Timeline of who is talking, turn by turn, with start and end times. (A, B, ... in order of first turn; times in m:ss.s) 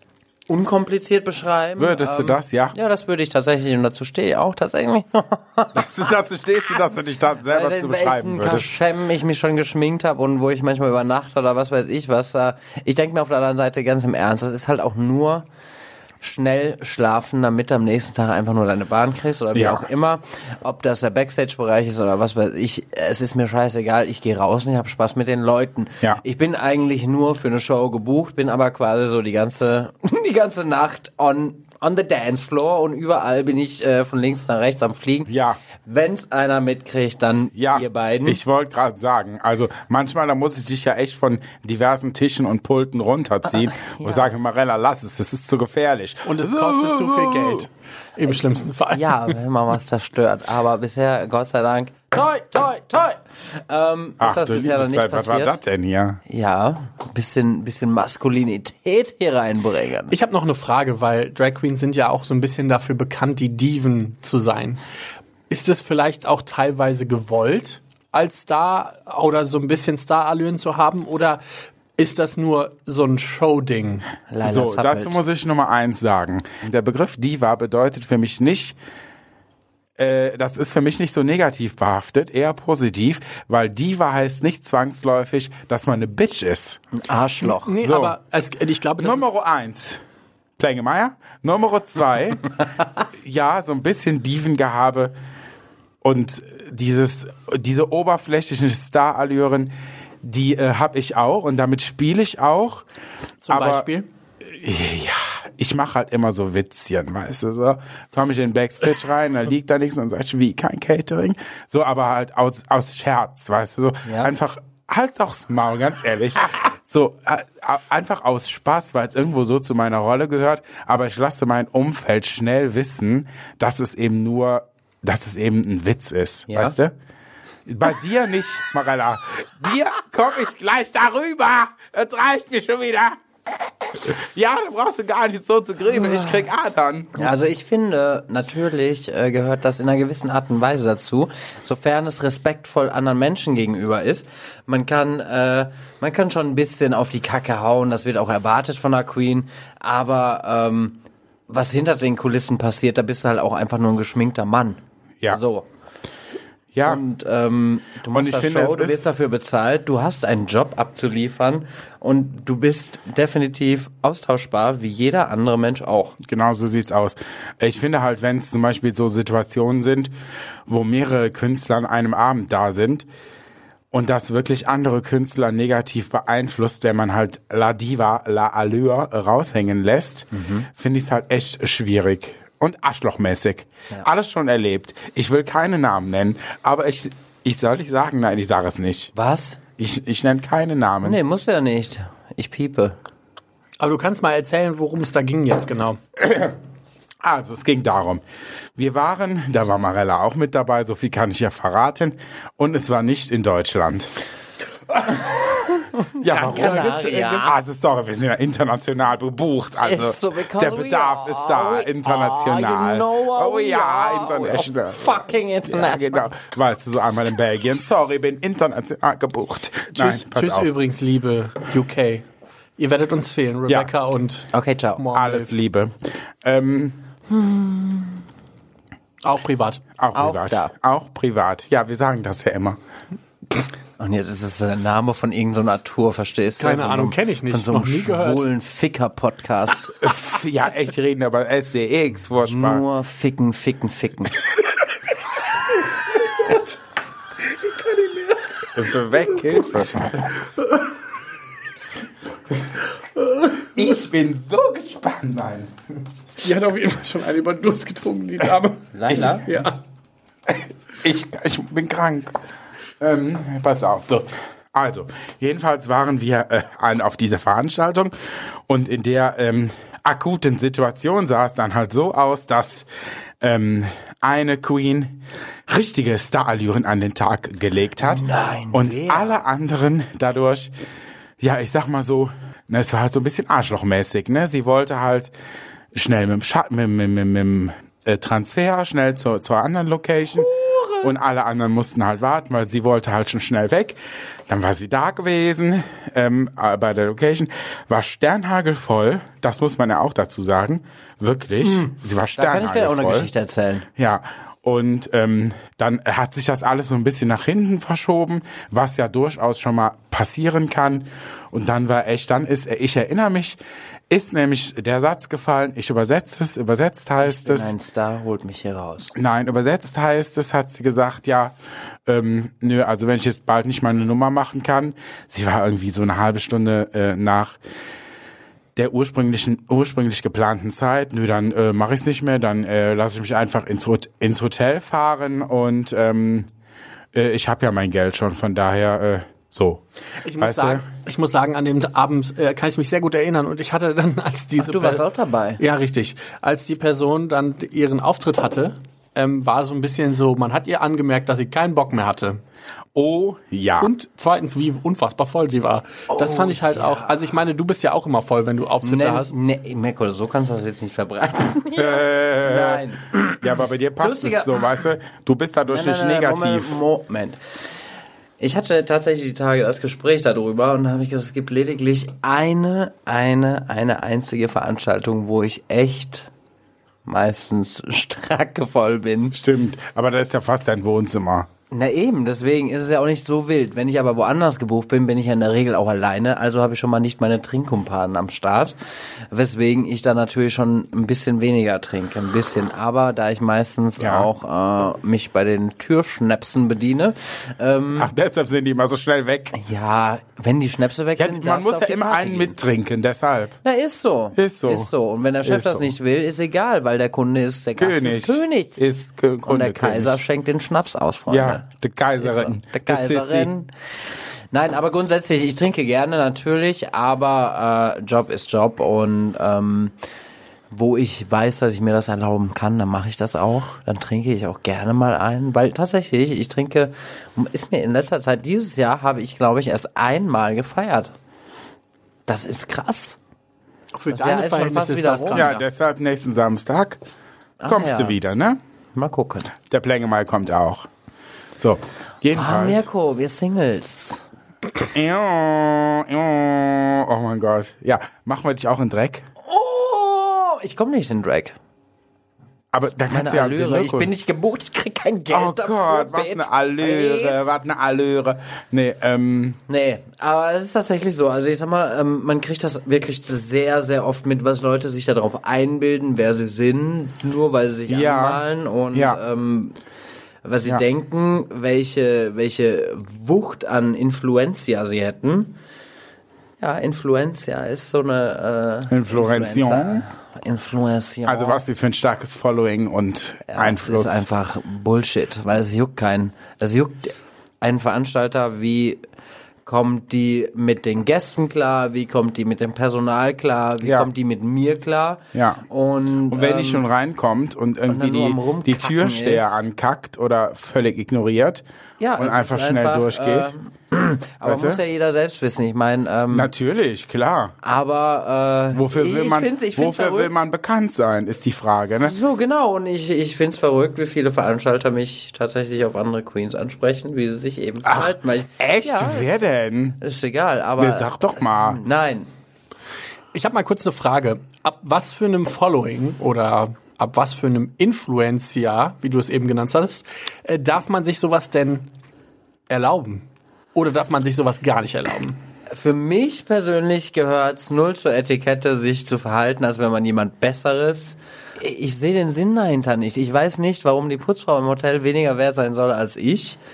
0:00.5-0:06.1 A
0:01.8-0:02.7 B
0:05.7-0:08.7 B
0:07.5-0:15.4 A
0:16.2-0:35.3 A
0:19.5-0:19.8 B
0:35.3-0:35.6 B
0:35.8-0:38.4 A
0:37.6-0:47.6 B
0:43.6-0:44.3 A
0:46.2-0:49.4 C
0:48.9-0:55.6 A
0:54.2-0:56.2 B
0:56.3-1:00.1 A
1:00.1-1:04.8 C
1:05.5-1:11.4 C
1:12.0-1:14.1 C
1:14.3-1:15.2 A
1:14.4-1:18.8 B
1:20.0-1:26.8 B
1:26.9-1:27.7 A
1:27.4-1:29.3 C
1:27.8-1:28.2 B
1:29.0-1:30.0 B
1:30.6-1:32.5 B
1:33.2-1:35.1 B
1:36.0-1:42.8 B
1:43.4-1:44.1 C
1:43.5-1:43.9 B
1:44.4-2:06.9 B
1:54.0-1:54.3 A
2:06.5-2:06.7 A
2:07.6-2:17.2 B
2:15.9-2:16.4 A
2:17.1-2:35.6 A
2:36.7-2:37.0 B
2:36.8-2:46.2 A
2:38.1-2:39.1 B
2:46.2-2:50.1 B
2:50.7-2:53.0 B
2:53.9-3:09.1 B
3:00.3-3:00.7 A
3:09.1-3:09.6 A
3:09.8-3:11.2 B
3:11.0-3:13.0 A
3:13.8-3:16.0 C
3:16.2-3:16.5 B
3:17.2-3:18.2 B
3:18.8-3:24.1 B
3:24.9-3:40.7 B
3:25.7-3:27.6 A
3:29.8-3:36.3 A
3:39.9-3:42.2 C
3:42.8-3:45.5 C
3:44.5-3:45.0 A
3:45.1-3:47.0 B
3:47.3-3:48.2 A
3:49.2-3:49.8 C
3:50.0-3:52.8 B
3:50.1-3:50.7 A
3:54.0-4:00.1 A
3:56.6-3:58.4 C
4:00.0-4:02.8 B
4:02.4-4:04.4 A
4:06.2-4:06.6 C
4:07.5-4:08.6 C
4:08.7-4:10.3 B
4:09.4-4:09.7 C
4:13.3-4:13.6 C
4:13.6-4:15.7 B
4:16.4-4:19.8 C
4:18.9-4:19.5 A
4:19.1-4:19.4 B
4:20.5-4:22.3 B
4:23.0-4:28.1 B
4:28.7-4:32.9 B
4:33.4-4:40.7 B
4:38.0-4:39.4 A
4:41.4-4:45.3 B
4:45.9-4:50.5 B
4:50.4-4:51.1 A
4:51.0-4:54.0 B
4:54.5-5:03.3 B
5:01.6-5:03.9 A
5:04.0-5:13.6 B
5:14.1-5:17.7 B
5:17.2-5:19.1 A
5:19.1-5:21.5 B
5:22.0-5:27.6 B
5:28.8-5:36.5 B
5:37.1-5:39.8 B
5:40.2-5:45.0 C
5:40.4-5:40.8 B
5:44.6-5:45.6 A
5:45.6-5:52.4 C
5:52.9-5:53.9 B
5:53.8-5:59.3 C
5:56.1-5:57.1 A
5:58.8-6:03.5 A
6:01.8-6:02.8 B
6:03.4-6:06.8 B
6:04.0-6:04.6 A
6:05.7-6:07.4 A
6:08.4-6:16.3 A
6:17.0-6:19.4 A
6:19.3-6:21.5 B
6:21.7-6:28.7 A
6:29.3-6:38.1 A
6:34.0-6:34.3 B
6:38.0-6:39.5 B
6:39.5-6:42.6 A
6:41.2-6:43.6 B
6:43.6-6:48.8 A
6:44.4-6:44.9 B
6:45.4-6:45.9 B
6:47.8-6:50.2 B
6:49.4-6:53.7 A
6:51.3-6:53.5 B
6:54.5-6:59.9 A
7:00.7-7:11.1 A
7:12.3-7:13.2 A
7:13.9-7:15.6 C
7:14.1-7:15.6 A
7:15.3-7:17.0 B
7:17.6-7:18.2 A
7:17.7-7:18.6 B
7:18.9-7:19.5 A
7:19.6-7:20.9 B
7:21.6-7:22.8 B
7:22.3-7:24.2 A
7:24.9-7:29.3 B
7:29.4-7:31.6 A
7:32.7-7:34.1 B
7:33.1-7:37.6 A
7:35.3-7:39.6 B
7:39.7-7:49.8 A
7:47.9-7:49.2 B
7:50.4-7:55.6 A
7:56.6-8:01.6 A
7:58.9-8:00.0 B
8:01.2-8:04.2 B
8:03.5-8:09.0 A
8:09.6-8:16.8 A
8:13.8-8:14.1 B
8:15.3-8:15.6 B
8:16.3-8:21.6 B
8:17.9-8:19.7 A
8:22.0-8:26.5 A
8:22.2-8:23.5 B
8:24.4-8:24.8 B
8:26.3-8:27.6 B
8:27.6-8:30.3 A
8:28.7-8:32.1 B
8:32.0-8:39.4 A
8:37.8-8:40.0 B
8:40.0-8:42.3 A
8:40.8-8:41.8 B
8:43.3-8:51.9 C
8:52.7-8:55.4 C
8:55.7-9:06.6 A